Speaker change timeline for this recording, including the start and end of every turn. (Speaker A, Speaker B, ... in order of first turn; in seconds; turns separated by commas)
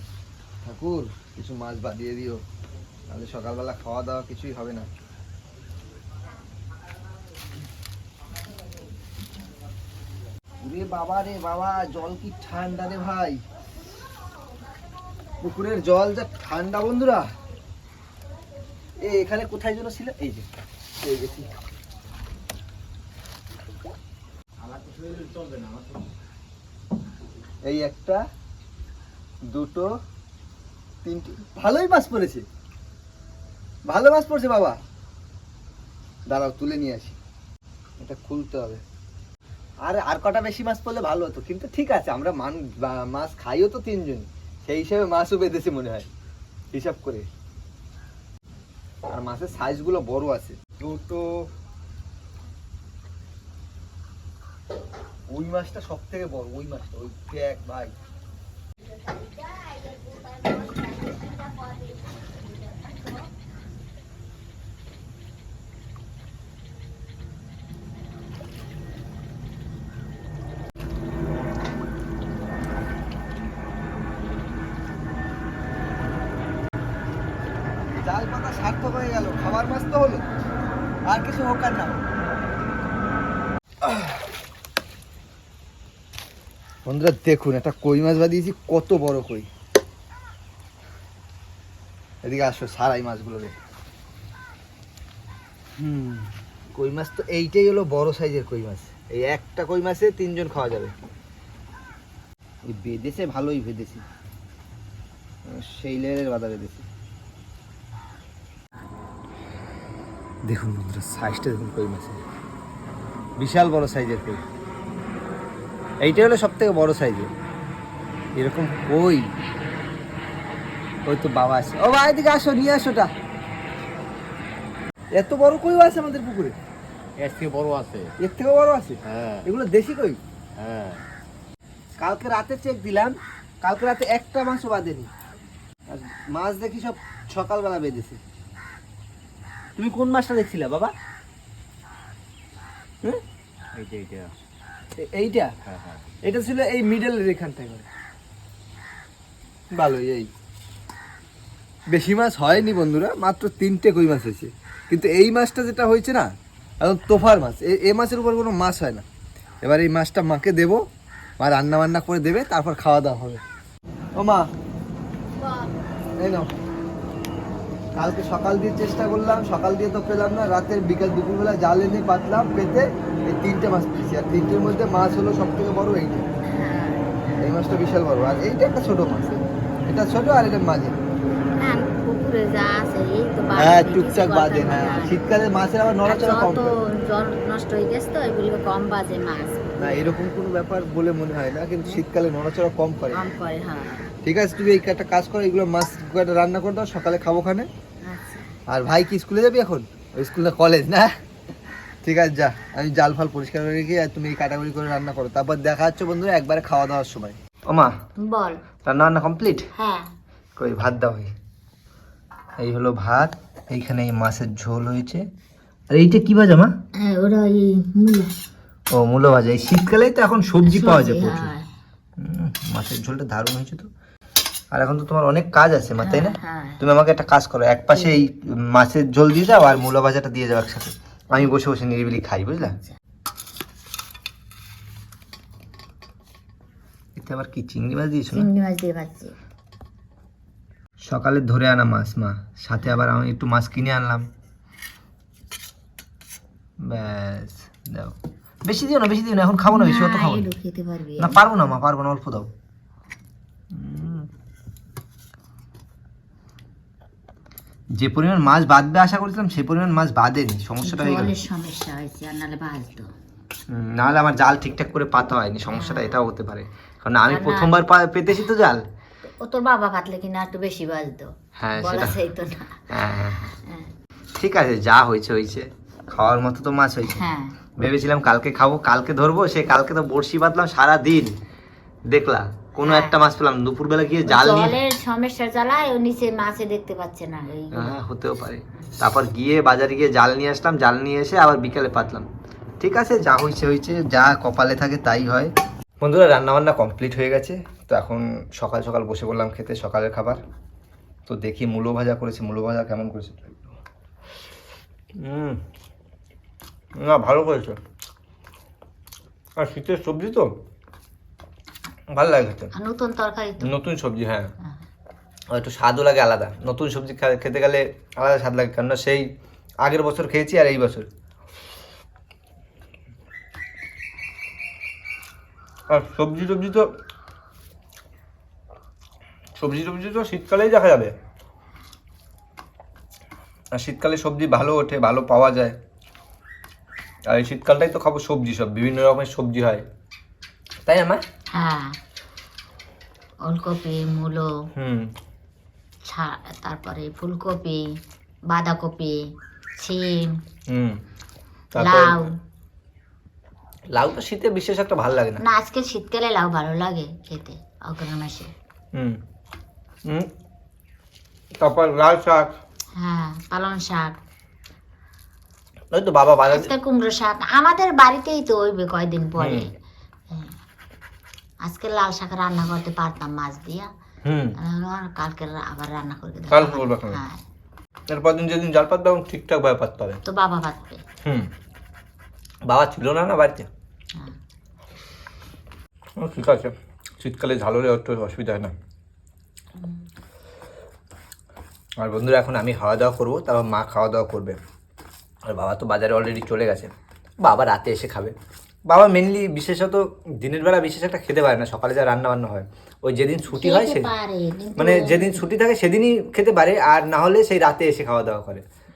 Speaker A: 0.6-2.4, Speaker A: 3.1-4.9, Speaker A: 10.6-13.4, Speaker A: 15.4-17.2, Speaker A: 19.0-20.5, Speaker A: 21.0-21.5, Speaker A: 24.8-25.6, Speaker A: 27.6-28.2, Speaker A: 29.5-29.9, Speaker A: 31.0-32.5, Speaker A: 33.9-34.8, Speaker A: 36.3-37.2, Speaker A: 38.0-38.8, Speaker A: 39.8-46.1, Speaker A: 46.7-47.3, Speaker A: 49.1-51.3, Speaker A: 55.3-57.9, Speaker A: 78.0-80.3, Speaker A: 81.1-82.0, Speaker A: 83.8-84.2, Speaker A: 86.8-89.5, Speaker A: 92.2-93.5, Speaker A: 95.8-100.9, Speaker A: 102.7-104.0, Speaker A: 105.5-106.9, Speaker A: 110.5-112.2, Speaker A: 113.4-114.4, Speaker A: 116.0-117.3, Speaker A: 118.4-119.3, Speaker A: 121.1-123.1, Speaker A: 125.2-126.5, Speaker B: 127.2-128.1, Speaker A: 128.2-130.2, Speaker B: 129.1-129.5, Speaker B: 130.6-131.0, Speaker A: 132.0-135.1, Speaker A: 135.9-138.2, Speaker A: 139.8-140.9, Speaker B: 143.7-144.3, Speaker A: 145.0-145.5, Speaker B: 145.7-146.0, Speaker A: 146.2-147.9, Speaker A: 149.7-150.3, Speaker A: 151.9-156.3, Speaker A: 156.8-159.0, Speaker A: 159.6-160.8, Speaker A: 161.4-163.4, Speaker A: 164.2-164.4, Speaker C: 165.4-165.7, Speaker A: 166.2-166.5, Speaker A: 167.9-176.2, Speaker C: 176.5-177.1, Speaker A: 177.4-181.0, Speaker C: 181.6-185.3, Speaker A: 183.6-186.7, Speaker C: 186.1-190.1, Speaker A: 189.8-193.2, Speaker C: 193.1-194.1, Speaker A: 194.2-197.7, Speaker C: 198.0-198.5, Speaker A: 198.7-201.1, Speaker A: 202.0-207.9, Speaker C: 208.2-208.6, Speaker A: 208.8-209.7, Speaker C: 209.8-210.1, Speaker A: 210.6-211.3, Speaker A: 212.6-215.2, Speaker A: 215.9-216.7, Speaker C: 217.0-218.3, Speaker A: 218.9-221.5, Speaker C: 220.6-221.7, Speaker A: 222.2-223.9, Speaker A: 224.7-232.8, Speaker C: 226.0-226.8, Speaker A: 237.2-238.5, Speaker C: 238.3-239.3, Speaker A: 241.0-244.2, Speaker A: 246.8-248.1, Speaker A: 248.7-250.5, Speaker C: 249.7-251.4, Speaker A: 251.2-252.5, Speaker A: 253.7-254.3, Speaker A: 258.0-261.3, Speaker C: 260.8-263.1, Speaker A: 263.7-268.8, Speaker C: 265.7-266.2, Speaker C: 267.3-267.7, Speaker C: 269.4-273.9, Speaker A: 271.6-272.2, Speaker A: 272.9-273.4, Speaker A: 274.4-277.2, Speaker C: 277.2-277.6, Speaker A: 277.8-281.3, Speaker A: 282.1-284.8, Speaker C: 282.8-283.2, Speaker C: 284.3-287.9, Speaker A: 287.7-292.3, Speaker A: 292.8-300.4, Speaker A: 301.3-303.7, Speaker A: 305.2-305.6, Speaker A: 307.0-307.8, Speaker A: 309.6-310.5, Speaker A: 312.1-312.7, Speaker C: 312.8-313.8, Speaker A: 313.8-314.5, Speaker A: 315.5-319.2, Speaker A: 319.8-321.1, Speaker A: 325.9-326.8, Speaker A: 329.6-331.1, Speaker A: 333.7-335.8, Speaker A: 337.3-339.8, Speaker A: 340.9-341.2, Speaker C: 341.5-341.9, Speaker C: 343.4-344.5, Speaker A: 344.8-345.1, Speaker C: 346.1-347.8, Speaker C: 348.5-349.2, Speaker C: 349.8-350.3, Speaker C: 351.8-352.3, Speaker A: 351.8-352.1, Speaker A: 353.9-355.4, Speaker C: 355.4-358.5, Speaker A: 361.6-362.5, Speaker C: 363.0-364.1, Speaker A: 365.9-366.6, Speaker C: 366.5-369.7, Speaker C: 370.3-370.6, Speaker C: 371.6-373.9, Speaker C: 374.6-377.4, Speaker A: 376.6-377.1, Speaker A: 378.1-380.2, Speaker C: 380.3-381.0, Speaker A: 382.7-383.7, Speaker A: 386.2-388.7, Speaker C: 389.8-390.1, Speaker A: 392.0-394.6, Speaker A: 395.5-398.3, Speaker A: 398.9-404.1, Speaker C: 403.5-405.5, Speaker A: 404.8-408.6